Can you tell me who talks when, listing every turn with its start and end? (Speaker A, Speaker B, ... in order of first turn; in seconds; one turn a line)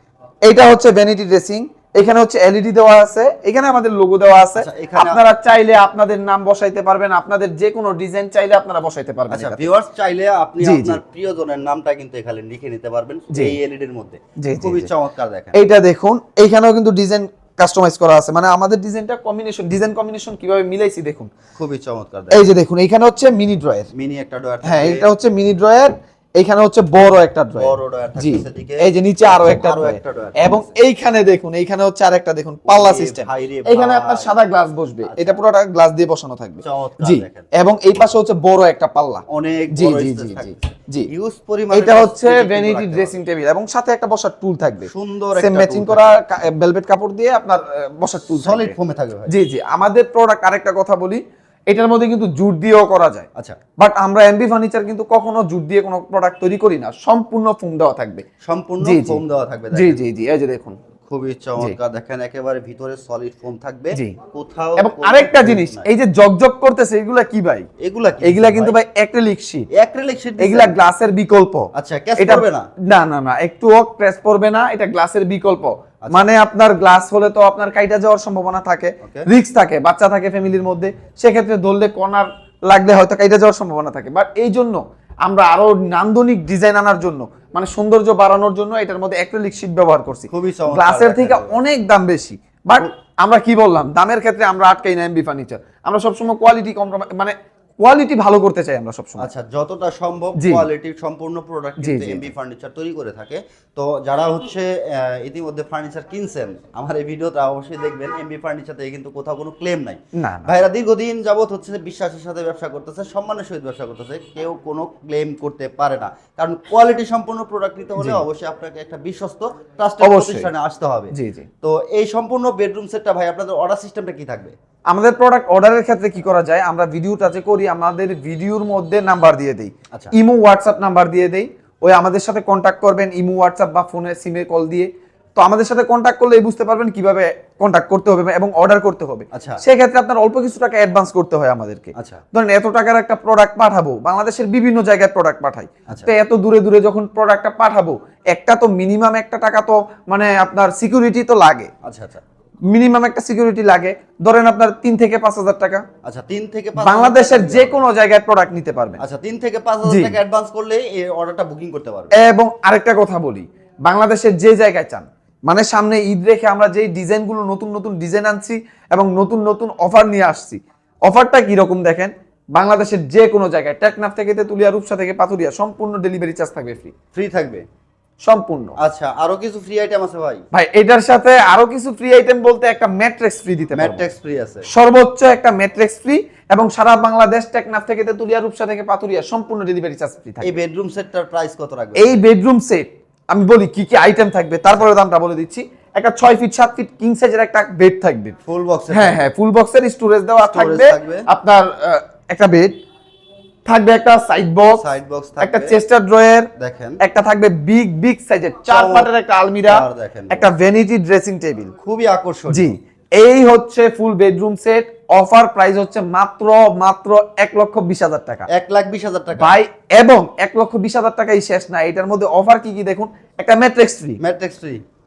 Speaker A: 0.5-9.7
Speaker B: 4.5-5.2
Speaker B: 9.3-15.6
Speaker A: 10.6-11.0
Speaker A: 14.4-14.9
Speaker A: 15.6-21.3
Speaker B: 21.6-22.4
Speaker A: 22.3-23.9
Speaker B: 23.9-25.1
Speaker A: 24.6-41.1
Speaker B: 27.6-30.6
Speaker B: 32.7-34.3
Speaker B: 35.0-35.4
Speaker B: 36.6-37.5
Speaker B: 39.3-43.2
Speaker A: 41.7-48.8
Speaker B: 44.9-46.2
Speaker B: 48.4-49.3
Speaker A: 49.3-53.3
Speaker A: 53.8-58.3
Speaker B: 58.4-60.0
Speaker A: 58.8-59.2
Speaker A: 59.7-60.8
Speaker B: 61.1-65.9
Speaker A: 63.9-64.2
Speaker A: 64.8-67.7
Speaker B: 67.8-68.8
Speaker A: 68.2-69.7
Speaker B: 69.7-70.8
Speaker A: 70.4-99.3
Speaker B: 71.7-72.7
Speaker B: 79.0-79.3
Speaker B: 90.3-91.6
Speaker B: 99.2-124.5
Speaker A: 100.4-100.7
Speaker A: 101.8-102.3
Speaker A: 110.2-110.6
Speaker A: 118.0-118.2
Speaker A: 120.0-120.5
Speaker A: 121.1-121.5
Speaker A: 124.9-151.7
Speaker B: 139.3-139.6
Speaker B: 141.9-142.2
Speaker B: 151.8-152.2
Speaker A: 152.7-155.8
Speaker B: 156.0-157.8
Speaker A: 156.8-159.0
Speaker B: 159.0-162.2
Speaker A: 159.8-160.2
Speaker A: 162.1-176.9
Speaker B: 177.1-177.6
Speaker A: 178.3-178.8
Speaker B: 178.8-180.4
Speaker A: 180.5-184.1
Speaker B: 183.7-184.7
Speaker A: 184.7-190.6
Speaker B: 190.4-192.2
Speaker A: 192.0-198.4
Speaker B: 198.5-199.3
Speaker A: 198.9-202.7
Speaker B: 200.4-201.3
Speaker A: 203.7-204.8
Speaker B: 204.7-205.8
Speaker A: 205.4-206.5
Speaker B: 206.6-207.0
Speaker A: 207.0-211.7
Speaker B: 208.7-209.1
Speaker B: 209.6-210.5
Speaker B: 211.8-212.7
Speaker A: 212.5-218.5
Speaker B: 218.5-219.6
Speaker A: 219.4-224.2
Speaker B: 224.2-224.8